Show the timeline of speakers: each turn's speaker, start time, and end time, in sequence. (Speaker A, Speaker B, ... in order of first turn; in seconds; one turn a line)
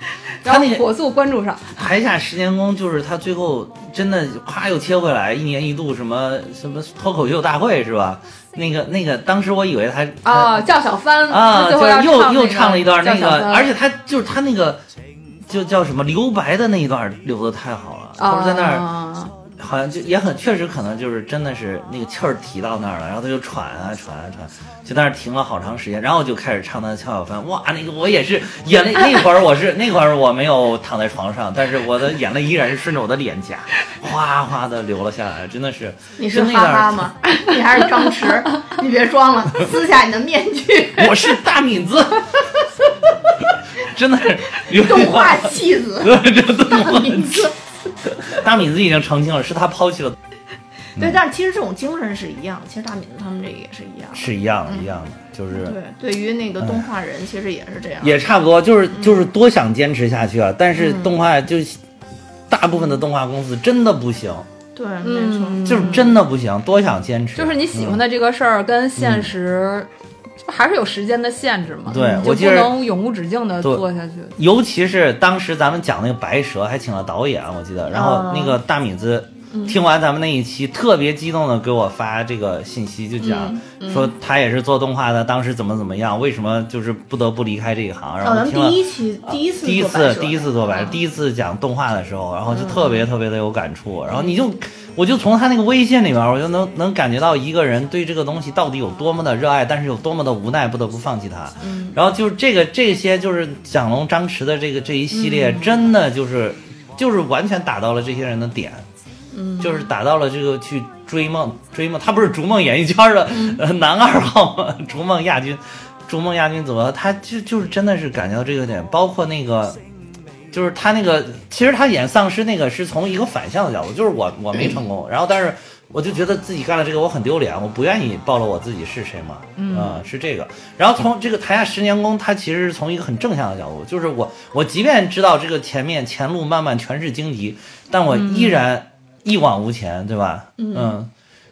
Speaker A: 0.4-1.8
Speaker B: 0.4-0.8
Speaker B: 1.8-10.6
Speaker A: 10.2-13.7
Speaker B: 11.3-14.8
Speaker B: 15.4-18.9
Speaker A: 18.2-19.3
Speaker B: 19.5-37.1
Speaker C: 36.2-41.3
Speaker B: 41.0-42.3
Speaker B: 43.7-47.5
Speaker C: 44.6-46.2
Speaker C: 46.7-47.5
Speaker B: 48.0-50.2
Speaker C: 51.0-54.9
Speaker B: 54.1-55.8
Speaker C: 55.5-58.2
Speaker B: 56.6-56.9
Speaker B: 58.0-61.8
Speaker C: 58.9-59.2
Speaker C: 60.7-61.2
Speaker B: 62.5-64.5
Speaker C: 64.8-66.1
Speaker A: 65.0-66.2
Speaker B: 65.6-68.0
Speaker A: 67.3-69.9
Speaker B: 69.0-69.3
Speaker A: 70.4-74.3
Speaker B: 71.9-72.8
Speaker C: 71.9-72.2
Speaker B: 74.4-108.8
Speaker C: 77.9-78.6
Speaker C: 79.5-79.8
Speaker C: 83.2-84.1
Speaker C: 88.2-90.9
Speaker C: 92.5-93.1
Speaker C: 94.1-94.4
Speaker C: 101.6-102.0
Speaker C: 105.1-105.7
Speaker C: 109.3-109.9
Speaker B: 109.6-119.8
Speaker C: 113.3-113.6
Speaker B: 120.5-141.1
Speaker A: 129.6-130.0
Speaker A: 138.1-138.6
Speaker C: 140.6-141.0